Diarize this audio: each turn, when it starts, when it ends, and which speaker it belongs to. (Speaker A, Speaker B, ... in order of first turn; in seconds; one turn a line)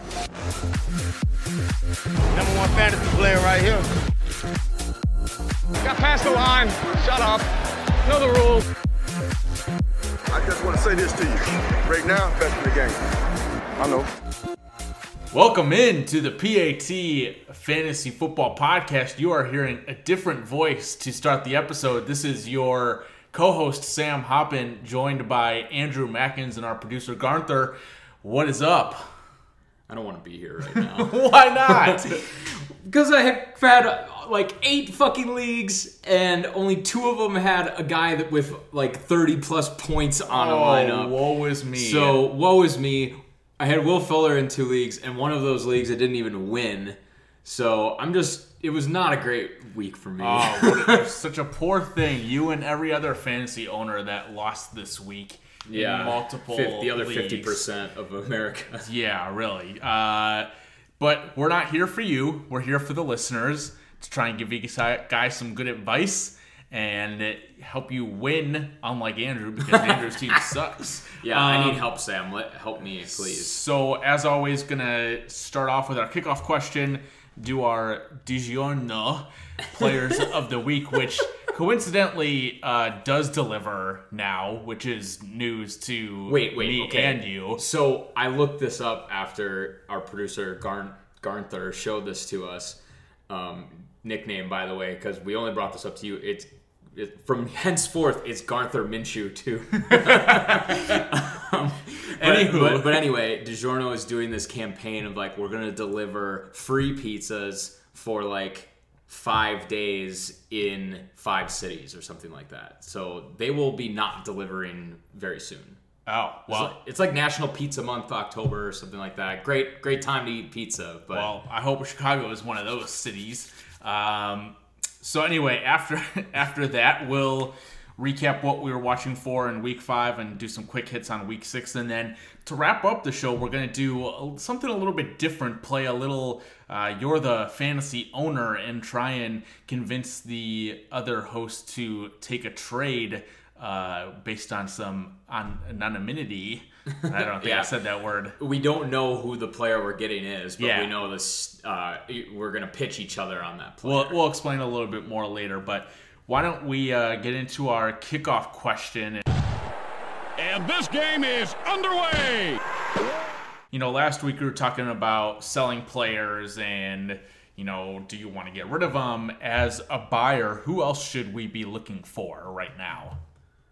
Speaker A: 2.3-3.9
Speaker B: 5.8-7.4
Speaker A: 7.0-7.4
Speaker B: 8.1-8.7
Speaker C: 10.3-13.0
Speaker C: 13.8-14.1
Speaker D: 15.3-29.2
Speaker E: 29.9-31.2
Speaker D: 30.7-32.2
Speaker E: 31.7-41.1
Speaker D: 40.3-42.2
Speaker E: 41.7-51.1
Speaker D: 50.2-57.6
Speaker E: 55.7-58.9
Speaker D: 58.8-60.5
Speaker D: 61.0-71.8
Speaker E: 71.2-73.6
Speaker D: 73.1-87.6
Speaker E: 86.3-115.8
Speaker D: 99.9-100.8
Speaker D: 102.2-103.0
Speaker D: 116.1-116.7
Speaker E: 116.5-121.3
Speaker D: 121.1-148.4
Speaker E: 147.0-147.7
Speaker E: 148.4-154.2
Speaker D: 150.6-150.9
Speaker D: 153.8-159.2
Speaker F: 160.4-162.6
Speaker D: 163.7-173.2